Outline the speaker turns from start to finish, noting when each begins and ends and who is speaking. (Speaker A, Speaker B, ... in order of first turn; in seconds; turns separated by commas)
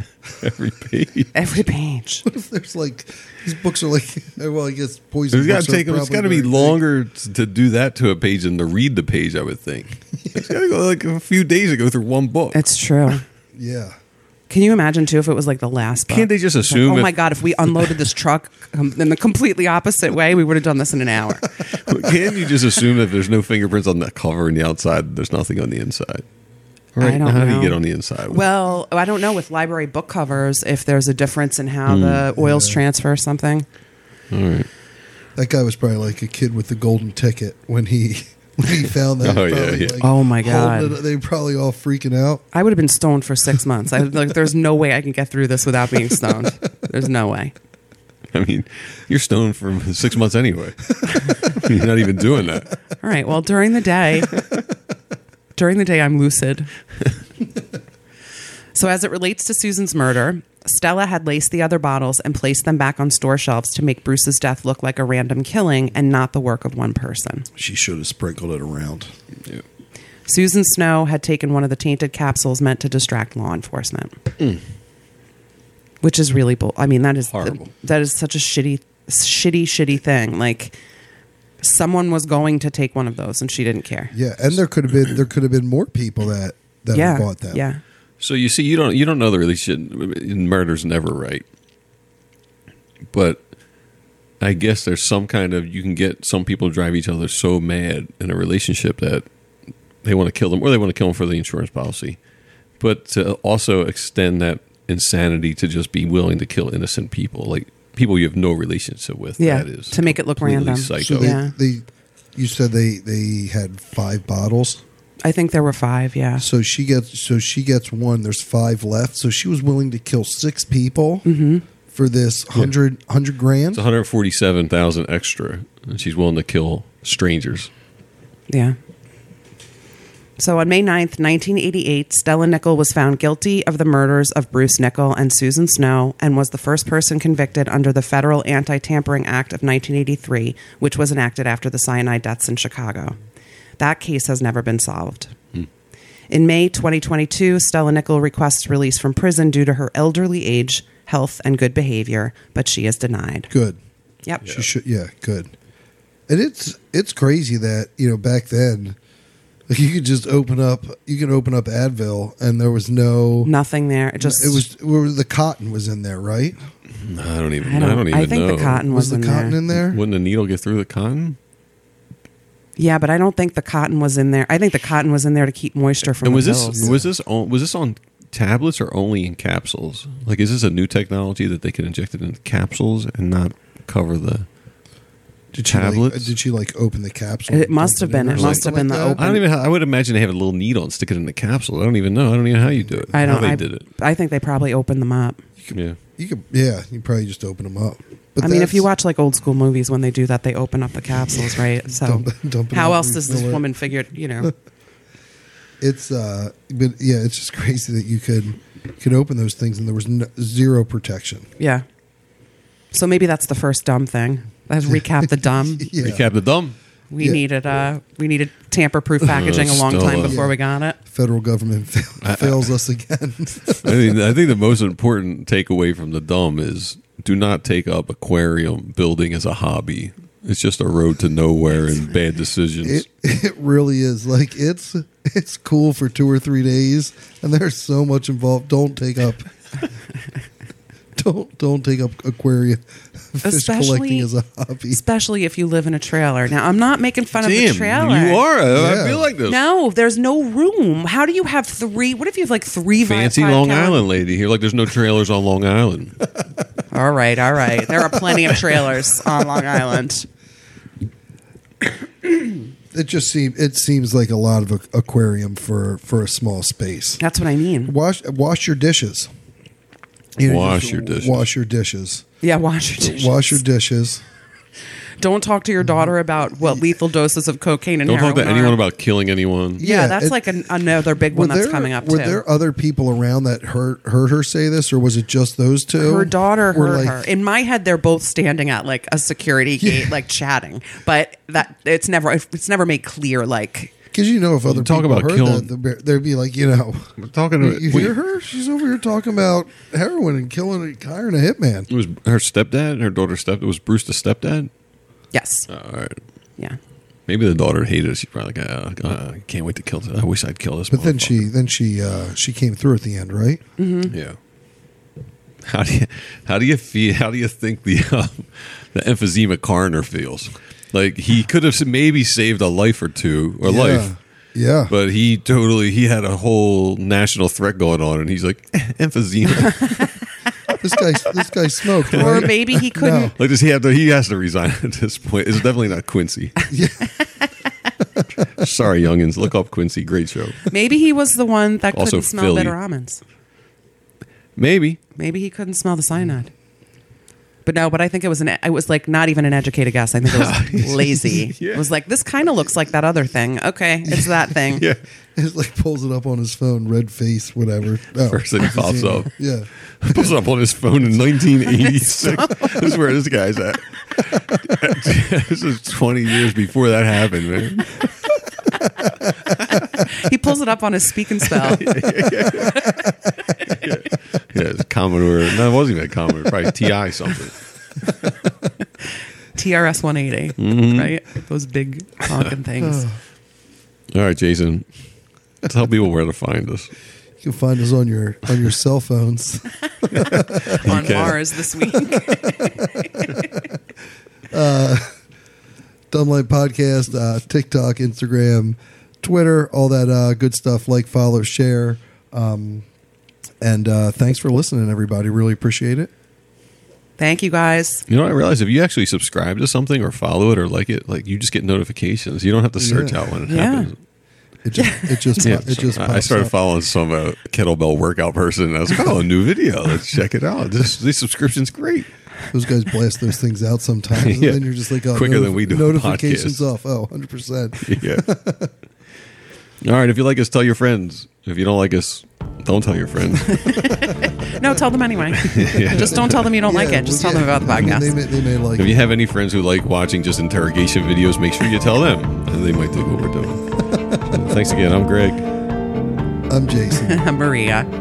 Speaker A: 0.3-1.3, Speaker B: 1.3-2.2, Speaker C: 2.2-6.8, Speaker A: 5.3-12.6, Speaker C: 10.2-10.5, Speaker B: 12.5-13.2, Speaker C: 13.5-13.9, Speaker B: 14.5-21.6, Speaker A: 16.1-17.9, Speaker A: 21.7-26.2, Speaker A: 26.9-28.4, Speaker B: 27.0-33.6, Speaker A: 31.9-32.2, Speaker C: 32.3-32.8, Speaker A: 34.3-34.7, Speaker C: 35.4-42.5, Speaker A: 39.2-40.0, Speaker B: 40.0-41.0, Speaker B: 42.5-47.5, Speaker A: 48.3-52.7, Speaker B: 53.0-54.4, Speaker B: 55.5-56.7, Speaker B: 58.7-67.5, Speaker C: 67.5-69.1, Speaker B: 70.3-74.2, Speaker B: 76.0-80.8, Speaker A: 77.3-77.6, Speaker B: 81.6-84.1, Speaker C: 84.1-87.6, Speaker B: 86.9-87.8, Speaker A: 88.2-91.4, Speaker A: 93.1-93.4, Speaker A: 94.4-99.2, Speaker A: 100.0-102.2, Speaker A: 102.8-111.4, Speaker B: 109.4-111.5, Speaker C: 111.0-114.8, Speaker B: 115.2-116.4, Speaker C: 116.4-121.2, Speaker B: 121.2-121.6, Speaker C: 121.9-123.8, Speaker A: 123.7-127.7, Speaker B: 128.5-128.8, Speaker B: 130.4-143.2, Speaker B: 143.8-145.3, Speaker B: 146.3-153.5, Speaker C: 153.5-153.8, Speaker C: 154.4-155.5, Speaker C: 156.3-159.0, Speaker C: 159.7-163.5, Speaker B: 163.4-164.6, Speaker C: 164.2-166.6, Speaker A: 167.0-168.8, Speaker B: 167.6-169.6, Speaker C: 168.9-170.0, Speaker A: 169.8-171.4, Speaker B: 172.8-176.9, Speaker A: 176.2-184.4, Speaker C: 176.8-177.1, Speaker C: 185.5-189.3, Speaker A: 185.6-186.3, Speaker B: 187.5-189.4, Speaker A: 188.3-193.8, Speaker C: 192.9-193.5, Speaker B: 193.1-195.4, Speaker C: 195.6-198.9, Speaker A: 195.7-196.0, Speaker B: 198.4-204.5, Speaker C: 201.9-203.7, Speaker C: 205.8-211.4, Speaker B: 211.6-211.8, Speaker B: 212.9-215.9, Speaker C: 214.9-216.2, Speaker A: 216.0-216.8, Speaker B: 217.1-221.0, Speaker A: 219.3-220.4, Speaker C: 220.2-220.5, Speaker C: 221.1-224.4, Speaker A: 222.2-222.7, Speaker A: 223.8-233.1, Speaker C: 232.8-239.5, Speaker C: 241.1-245.0, Speaker B: 243.4-244.3, Speaker B: 244.9-248.4, Speaker A: 247.4-249.6, Speaker C: 248.7-249.3, Speaker B: 249.5-254.0, Speaker A: 253.0-256.2, Speaker B: 256.9-260.3, Speaker C: 262.9-267.2, Speaker B: 267.2-267.9, Speaker C: 267.9-269.3, Speaker C: 270.4-272.2, Speaker A: 270.4-271.5, Speaker B: 272.4-273.6, Speaker C: 273.0-274.2, Speaker B: 275.2-278.8, Speaker A: 278.0-279.8, Speaker C: 279.8-280.6, Speaker B: 279.8-282.4, Speaker C: 281.2-287.2, Speaker B: 286.0-293.9, Speaker C: 289.8-290.1, Speaker C: 294.1-301.9, Speaker A: 294.7-295.7, Speaker A: 297.2-298.1, Speaker A: 301.9-304.7, Speaker B: 305.3-305.7, Speaker A: 305.7-306.2, Speaker A: 307.3-311.4, Speaker C: 310.9-313.6, Speaker B: 313.8-314.1, Speaker A: 314.1-314.4, Speaker A: 315.6-324.1, Speaker C: 323.6-324.9, Speaker A: 324.9-330.1, Speaker C: 330.8-333.3, Speaker B: 332.1-333.3, Speaker A: 332.1-332.6, Speaker A: 333.3-336.5, Speaker C: 336.7-337.1, Speaker A: 338.5-340.6, Speaker B: 340.7-343.2, Speaker A: 341.9-342.7, Speaker A: 344.6-345.0, Speaker B: 345.1-346.5, Speaker B: 347.6-354.8, Speaker A: 350.2-351.8, Speaker A: 354.7-355.0, Speaker C: 355.3-360.3, Speaker A: 358.2-359.3, Speaker A: 360.0-368.1, Speaker B: 362.3-362.7, Speaker A: 369.6-369.8, Speaker B: 369.8-371.9, Speaker A: 371.6-373.0, Speaker B: 372.6-373.0, Speaker A: 373.6-377.6, Speaker B: 379.5-383.1, Speaker A: 380.6-381.1, Speaker C: 382.8-383.1, Speaker A: 384.1-384.9, Speaker A: 385.6-386.9, Speaker C: 387.4-391.3, Speaker A: 390.1-391.5, Speaker B: 390.7-393.5, Speaker C: 392.1-393.3, Speaker C: 394.5-395.1, Speaker C: 396.1-402.9, Speaker C: 403.6-406.1, Speaker B: 407.2-408.0, Speaker A: 408.1-413.9, Speaker C: 412.8-413.3, Speaker B: 413.5-413.9, Speaker C: 414.6-416.5, Speaker B: 414.8-415.6, Speaker A: 415.4-422.1, Speaker C: 422.5-428.7, Speaker A: 424.1-426.6, Speaker A: 427.8-428.3, Speaker A: 429.8-433.9, Speaker B: 433.4-438.1, Speaker A: 435.3-436.4, Speaker C: 435.9-439.0, Speaker A: 438.8-445.4, Speaker C: 443.8-444.4, Speaker C: 446.5-447.2, Speaker B: 446.9-447.9